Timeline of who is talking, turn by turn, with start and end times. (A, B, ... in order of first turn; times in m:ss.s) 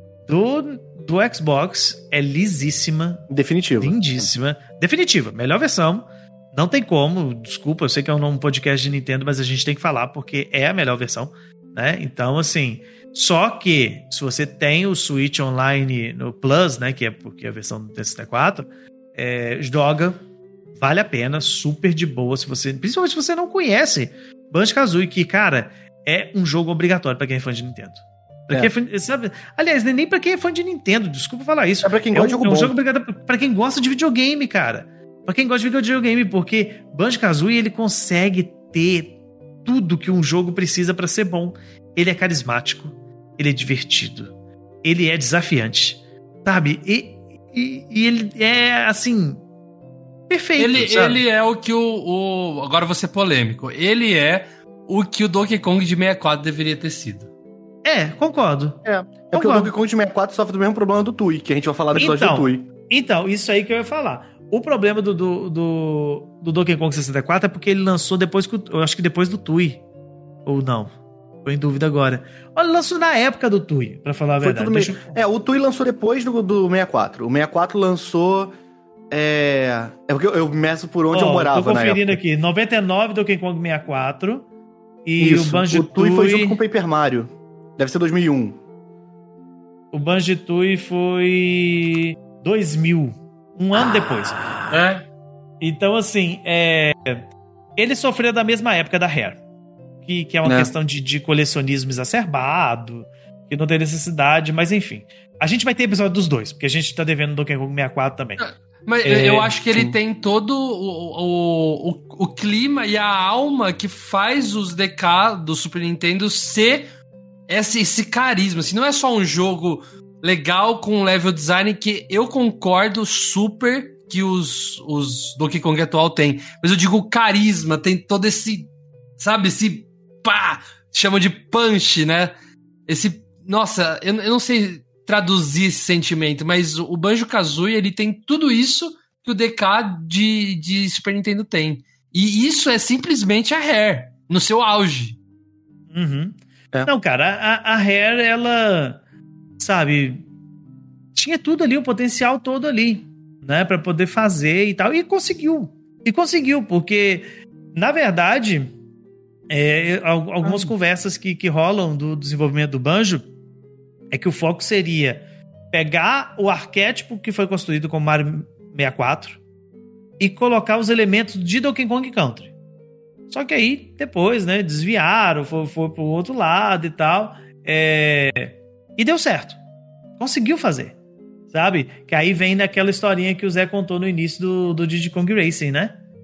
0:00.3-0:03.2 A
0:03.3-0:04.3 B
0:03.8-0:20.2 A
0:20.8-0:44.3 A
0:31.8-0:32.8 B
0:44.8-0:49.4 A
0:50.3-0:51.2 A
0:50.6-0:57.3 C
0:57.8-0:59.7 A
0:58.8-1:02.7 B
1:01.9-1:09.8 A
1:10.5-1:10.9 A
1:11.4-1:15.2 A
1:14.4-1:18.5 B
1:19.1-1:22.2 B
1:21.1-1:24.4 A
1:25.0-1:26.6 A
1:25.2-1:28.6 B
1:29.9-1:34.6 A
1:34.7-1:35.0 C
1:35.6-1:37.2 A
1:37.8-1:39.4 A
1:40.1-1:48.4 A
1:40.4-1:40.7 B
1:48.4-1:56.9 C
1:49.0-1:49.5 A
1:57.5-2:12.3 C
2:12.9-2:25.2 C
2:25.9-2:29.0 A
2:29.6-2:30.3 A
2:31.1-2:38.7 A
2:39.5-2:43.3 A
2:44.1-2:49.4 A
2:50.2-2:52.5 A
2:53.3-2:59.6 A
3:00.2-3:01.0 A
3:01.5-3:05.9 A